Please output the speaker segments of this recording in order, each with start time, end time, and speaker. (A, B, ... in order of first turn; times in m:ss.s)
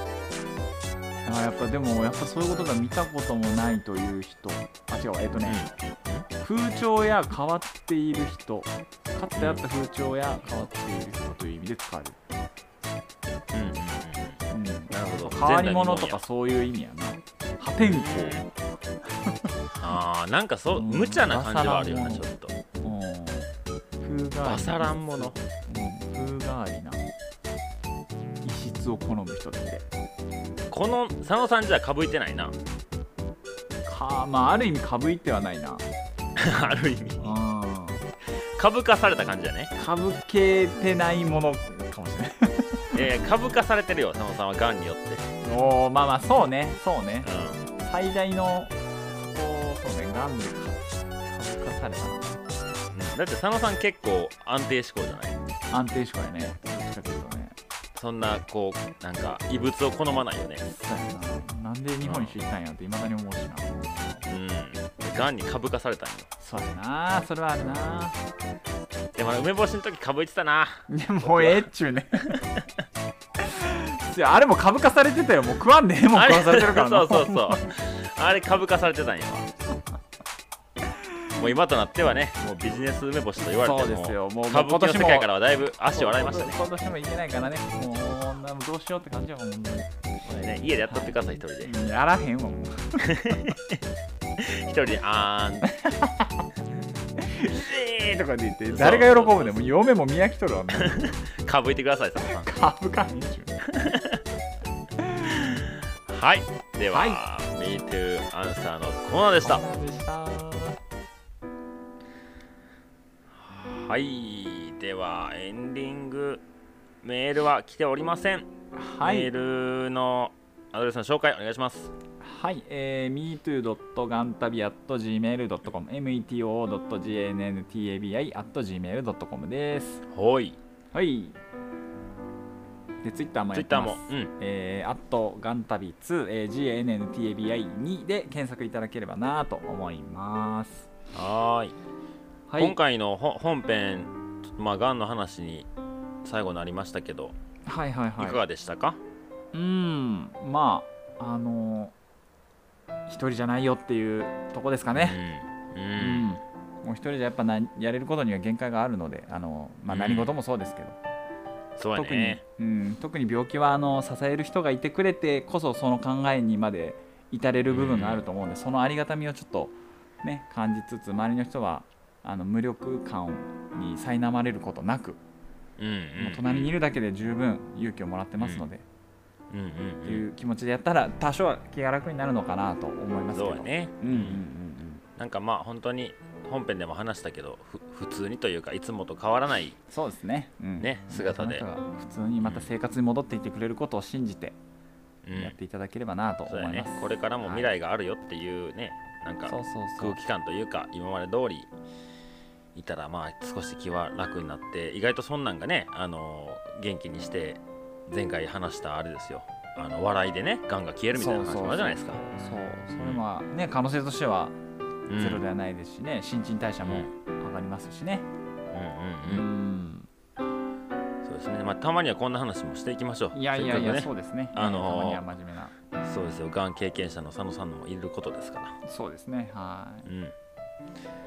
0:01.2-0:05.6 A
0:05.5-0:06.2 B
0:06.4-0:12.2 A
0:09.4-0:09.6 B
0:13.5-0:14.4 B
0:14.5-0:18.5 A
0:14.9-0:16.2 B
0:17.8-0:18.4 B
0:19.8-0:22.6 B
0:20.8-0:22.2 A
0:22.8-0:23.5 A
0:24.0-0:27.1 A
0:24.4-0:25.4 B
0:28.4-0:29.9 A
0:30.7-0:32.6 B
0:33.9-0:35.8 A
0:36.4-0:37.3 B
0:37.2-0:38.0 A
0:38.6-0:39.7 B
0:39.8-0:43.1 A
0:42.9-0:45.2 B
0:45.4-0:52.4 A
0:47.2-0:47.6 B
0:52.9-0:55.4 B
0:55.7-0:57.6 A
0:58.0-1:00.6 B
1:00.7-1:04.3 A
1:02.0-1:02.4 B
1:04.3-1:06.3 B
1:06.4-1:08.2 A
1:09.2-1:11.7 B
1:10.9-1:12.4 A
1:12.2-1:12.6 B
1:13.4-1:17.6 A
1:16.1-1:19.5 B
1:21.4-1:26.6 B
1:23.4-1:25.3 A
1:25.9-1:29.9 A
1:30.2-1:31.7 B
1:30.9-1:33.5 A
1:33.0-1:33.8 B
1:34.4-1:35.7 B
1:35.7-1:36.5 A
1:37.2-1:41.1 A
1:38.7-1:39.6 B
1:40.7-1:42.5 B
1:42.2-1:43.5 A
1:43.6-1:44.2 B
1:45.0-1:45.6 A
1:45.2-1:49.6 B
1:46.9-1:47.2 A
1:49.4-1:50.8 A
1:53.4-1:56.4 B
1:57.0-1:58.5 B
1:58.7-1:59.3 A
1:59.0-2:01.9 B
2:02.2-2:10.0 A
2:10.1-2:10.6 B
2:10.9-2:11.4 A
2:13.0-2:20.9 A
2:13.5-2:14.3 B
2:21.1-2:21.8 B
2:22.5-2:22.8 A
2:22.6-2:25.7 B
2:26.2-2:27.4 B
2:27.7-2:28.4 A
2:28.2-2:29.0 B
2:29.5-2:32.0 A
2:33.1-2:35.2 A
2:34.9-2:36.3 B
2:36.0-2:41.0 A
2:39.9-2:40.4 B
2:41.8-2:42.4 B
2:42.0-2:55.2 A
2:47.7-2:48.2 B
2:55.8-2:56.7 B
2:56.2-2:58.8 A
2:58.4-2:58.6 B
2:59.5-3:00.2 B
3:00.0-3:05.0 A
3:03.3-3:04.4 B
3:05.2-3:09.8 B
3:09.9-3:14.6 A
3:10.8-3:11.6 B
3:12.4-3:12.7 B
3:15.2-3:15.6 B
3:15.3-3:17.7 A
3:16.5-3:21.7 B
3:19.5-3:20.2 A
3:22.8-3:32.2 B
3:31.1-3:34.6 A
3:33.0-3:33.2 B
3:35.1-3:35.4 B
3:35.2-3:38.3 A
3:36.8-3:37.1 B
3:38.7-3:39.5 B
3:39.3-3:40.1 A
3:41.2-3:45.2 B
3:43.3-3:45.7 A
3:46.0-3:48.7 B
3:48.8-3:50.1 A
3:50.1-3:50.3 B